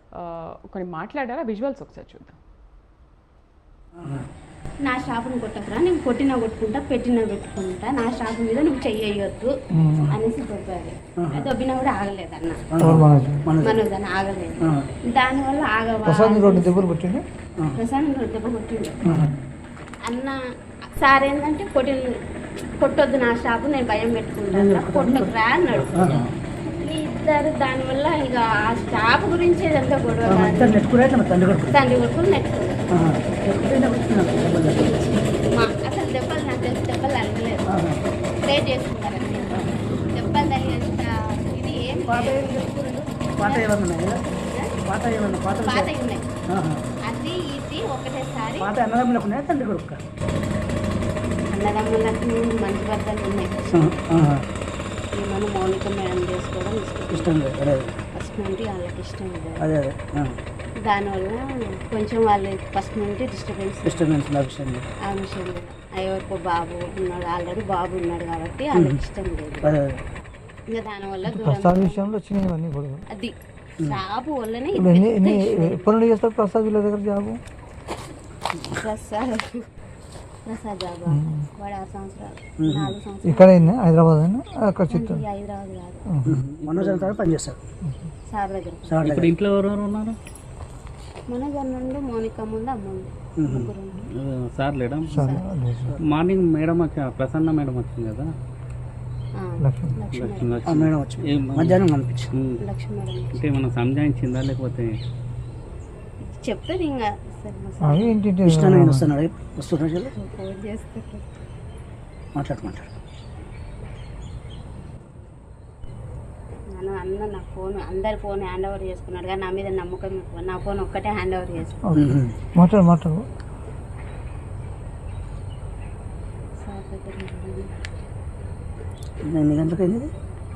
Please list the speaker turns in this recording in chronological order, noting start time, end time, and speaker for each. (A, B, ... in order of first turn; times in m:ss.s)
0:00.2-0:02.4 A
0:04.0-0:04.3 B
0:04.8-0:09.5 C
0:09.7-0:10.1 D
0:10.1-0:12.6 C
0:11.2-0:11.5 B
0:12.7-0:13.8 B
0:12.8-0:13.5 D
0:13.6-0:16.9 C
0:14.6-0:14.9 B
0:16.0-0:17.2 D
0:17.8-0:19.0 C
0:19.0-0:19.3 B
0:20.0-0:20.4 C
0:20.9-0:22.2 C
0:22.8-0:30.8 C
0:24.5-0:26.3 B
0:30.2-0:31.7 B
0:31.7-0:32.8 C
0:32.9-0:35.0 B
0:34.8-0:37.6 C
0:37.7-0:38.0 B
0:38.4-0:44.7 C
0:41.9-0:42.7 B
0:43.4-0:44.2 B
0:44.8-0:45.9 B
0:45.6-0:46.3 C
0:46.5-0:46.8 B
0:47.0-0:48.7 C
0:48.6-0:50.0 B
0:51.5-0:53.8 C
0:53.7-0:54.4 B
0:55.2-0:57.3 C
0:57.1-0:57.9 B
0:58.2-0:59.7 C
0:59.6-1:00.4 B
1:00.8-1:04.1 C
1:03.8-1:04.9 B
1:05.1-1:09.7 C
1:09.6-1:10.0 B
1:10.7-1:12.1 C
1:11.2-1:13.0 D
1:13.1-1:15.9 C
1:14.8-1:17.4 D
1:18.7-1:19.6 C
1:20.4-1:23.8 C
1:21.1-1:21.5 D
1:22.6-1:22.9 B
1:23.2-1:25.2 D
1:24.9-1:26.0 C
1:26.1-1:26.4 D
1:26.3-1:27.6 B
1:26.6-1:27.2 E
1:27.8-1:28.1 D
1:28.3-1:29.1 C
1:28.9-1:29.3 B
1:29.0-1:30.2 E
1:31.3-1:34.1 C
1:33.4-1:33.7 B
1:34.2-1:35.2 E
1:35.1-1:36.0 D
1:35.1-1:35.5 C
1:36.0-1:38.3 E
1:39.4-1:40.7 C
1:39.6-1:39.9 D
1:40.2-1:41.8 E
1:40.7-1:42.3 B
1:42.6-1:43.4 C
1:43.3-1:44.9 E
1:46.3-1:48.2 C
1:47.8-1:49.1 D
1:48.4-1:50.1 B
1:50.1-1:51.3 C
1:52.3-1:52.9 B
1:56.7-2:01.8 C
2:01.8-2:03.2 D
2:02.0-2:02.4 B
2:06.6-2:07.7 C
2:09.3-2:10.1 B